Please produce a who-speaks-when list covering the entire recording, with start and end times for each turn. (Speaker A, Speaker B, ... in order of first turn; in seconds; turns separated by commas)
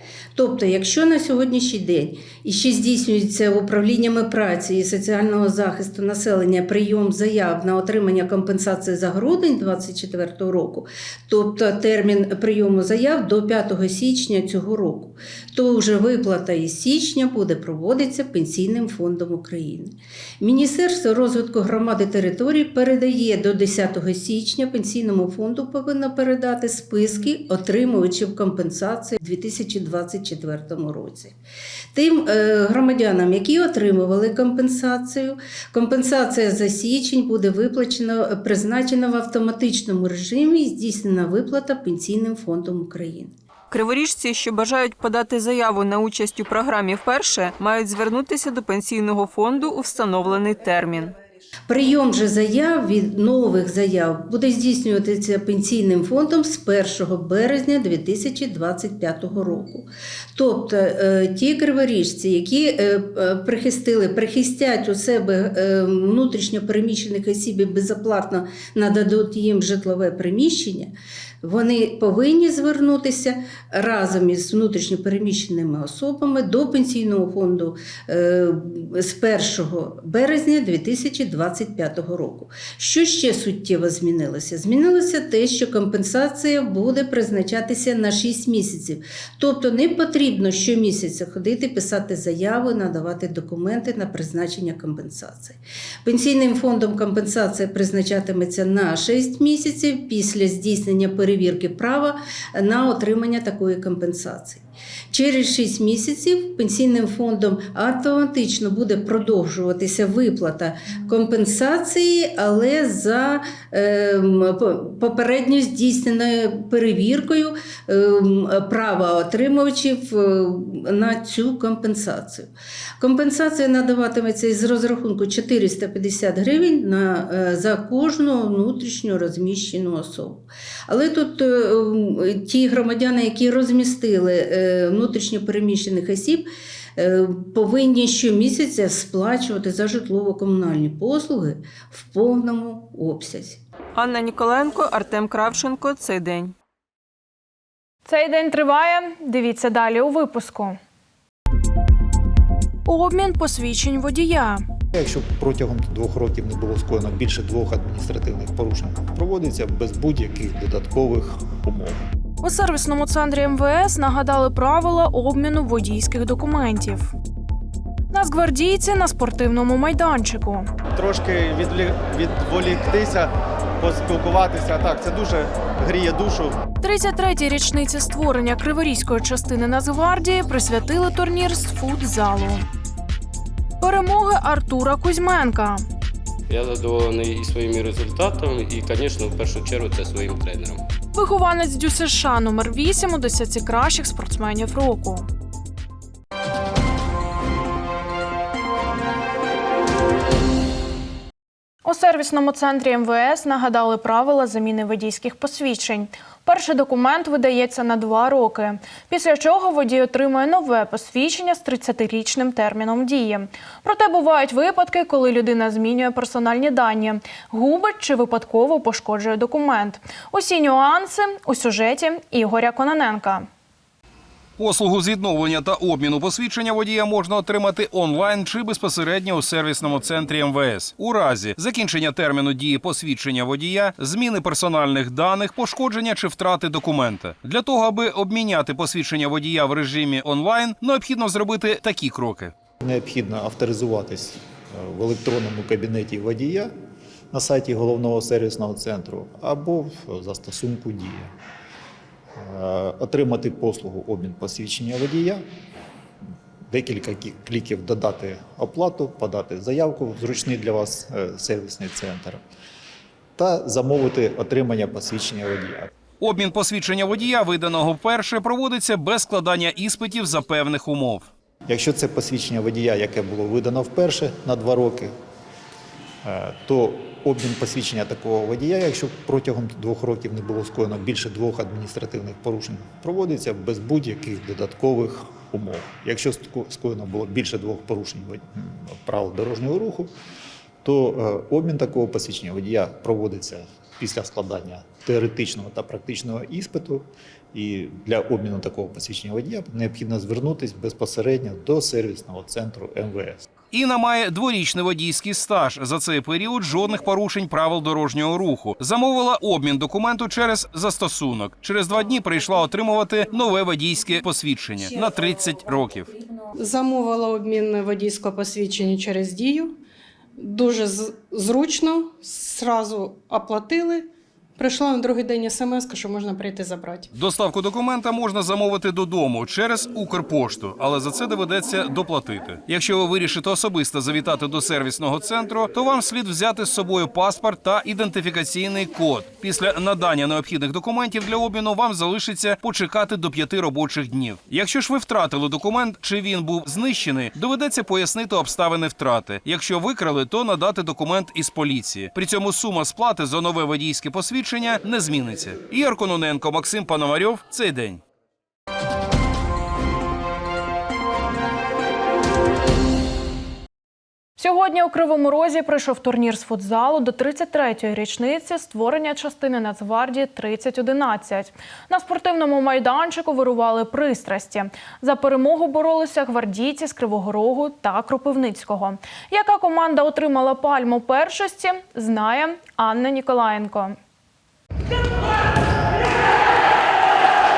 Speaker A: 0.3-31.4, Speaker A: 31.9-43.3, Speaker B: 43.7-51.1, Speaker A: 51.7-143.6, Speaker B: 143.9-146.6, Speaker C: 148.1-150.8, Speaker C: 152.9-154.6, Speaker D: 154.9-162.0, Speaker C: 162.4-167.1, Speaker C: 168.1-170.7, Speaker E: 170.9-176.6, Speaker C: 176.8-182.7, Speaker C: 183.8-185.8, Speaker F: 186.5-190.8, Speaker C: 191.2-195.3, Speaker C: 201.8-223.5, Speaker G: 224.6-242.5, Speaker D: 242.8-246.7, Speaker D: 247.3-251.3, Speaker D: 252.4-255.4, Speaker D: 256.7-262.4, Speaker D: 263.4-265.9, Speaker G: 266.2-271.3, Speaker D: 271.7-275.1, Speaker D: 276.2-290.1, Speaker D: 290.8-303.4, Speaker G: 303.7-316.1, Speaker H: 316.6-319.8, Speaker H: 320.4-327.1, Speaker G: 327.1-358.0, Speaker C: 364.4-384.0